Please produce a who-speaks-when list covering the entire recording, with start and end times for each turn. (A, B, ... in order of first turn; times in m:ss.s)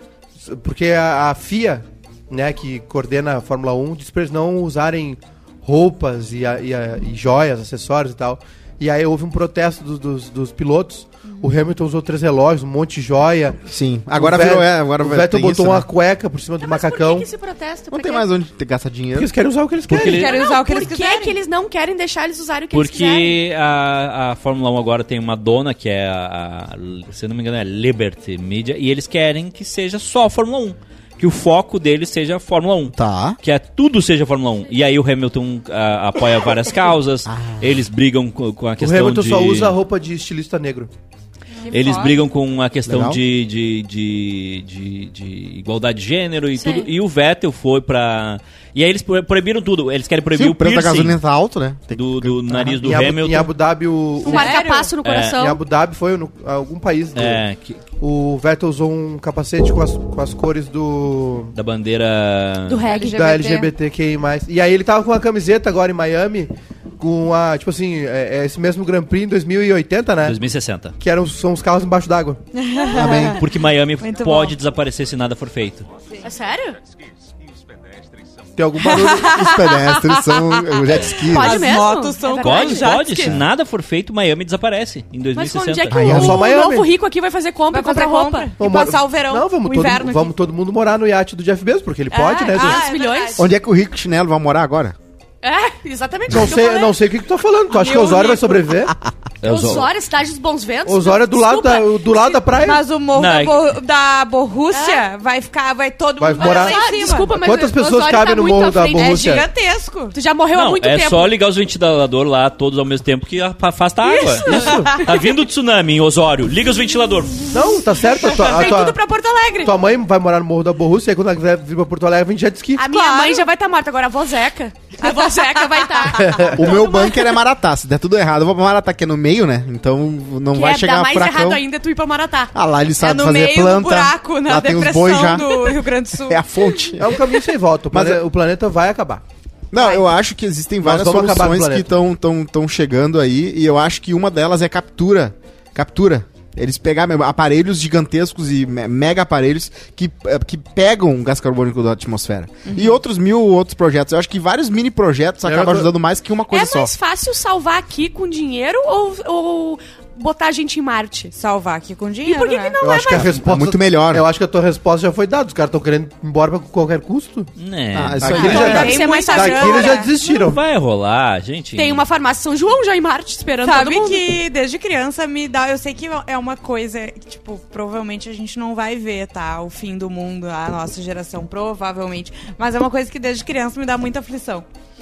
0:00.4-0:13.6 A
0:13.7-0:15.9 B
0:14.1-0:17.3 A
0:16.6-0:18.3 C
0:17.9-0:19.3 B
0:19.1-0:20.3 A
0:19.9-0:20.4 D
0:20.0-0:21.4 E
0:20.0-0:23.4 C
0:22.7-0:39.8 D
0:32.9-0:33.4 B
0:37.2-0:37.9 B
0:38.8-0:40.9 A
0:41.6-0:42.1 E
0:41.7-0:51.2 D
0:42.8-0:43.2 B
0:46.6-0:46.9 C
0:50.3-0:52.8 B
0:51.9-0:53.5 D
0:52.8-0:54.6 A
0:54.2-0:54.9 E
0:54.2-0:55.6 C
0:55.0-0:55.4 D
0:55.3-0:57.4 A
0:57.1-0:57.8 D
0:58.0-1:01.5 A
1:01.5-1:02.9 D
1:02.7-1:03.7 C
1:02.9-1:03.4 E
1:02.9-1:10.4 A
1:10.2-1:10.9 D
1:11.0-1:12.4 A
1:12.5-1:14.6 E
1:12.8-1:13.3 C
1:12.9-1:13.4 B
1:13.4-1:15.9 D
1:16.2-1:16.8 C
1:18.6-1:19.6 A
1:18.9-1:20.6 E
1:19.2-1:21.6 B
1:21.1-1:23.3 E
1:21.2-1:23.3 C
1:22.4-1:26.1 D
1:25.3-1:28.5 C
1:25.9-1:26.5 B
1:26.0-1:26.9 A
1:27.7-1:30.3 E
1:28.6-1:32.8 A
1:32.1-1:33.5 C
1:32.3-1:33.5 E
1:33.4-1:35.0 B
1:35.4-1:37.0 C
1:36.3-1:38.9 A
1:37.7-1:38.7 E
1:37.8-1:38.5 C
1:39.4-1:39.9 D
1:39.4-1:42.4 C
1:40.8-1:42.8 A
1:42.5-1:47.3 E
1:43.1-1:43.6 D
1:44.7-1:45.0 C
1:46.2-1:49.4 A
1:46.3-1:49.4 C
1:48.9-1:50.1 E
1:50.1-1:51.3 C
1:50.5-1:57.6 D
1:54.0-1:55.2 C
1:54.4-1:55.1 A
1:57.5-1:59.0 A
1:58.1-1:59.7 C
1:59.6-2:02.8 A
2:02.8-2:07.3 C
2:02.9-2:03.4 E
2:05.0-2:06.6 E
2:06.2-2:06.7 A
2:06.5-2:11.6 B
2:10.5-2:12.5 C
2:12.5-2:15.6 B
2:13.0-2:16.4 E
2:16.3-2:17.2 B
2:17.0-2:19.2 A
2:17.9-2:18.2 B
2:19.7-2:36.9 B
2:19.8-2:20.0 E
2:20.8-2:21.9 A
2:32.6-2:33.0 E
2:35.4-2:35.9 A
2:36.5-2:41.3 C
2:41.3-2:42.8 E
2:42.2-2:43.3 C
2:42.8-2:47.5 A
2:43.1-2:44.2 B
2:47.6-2:48.8 D
2:47.9-2:48.9 B
2:48.2-2:50.6 A
2:48.3-2:50.0 C
2:48.3-2:50.1 E
2:50.2-2:52.0 D
2:51.8-2:54.2 C
2:53.6-3:04.6 E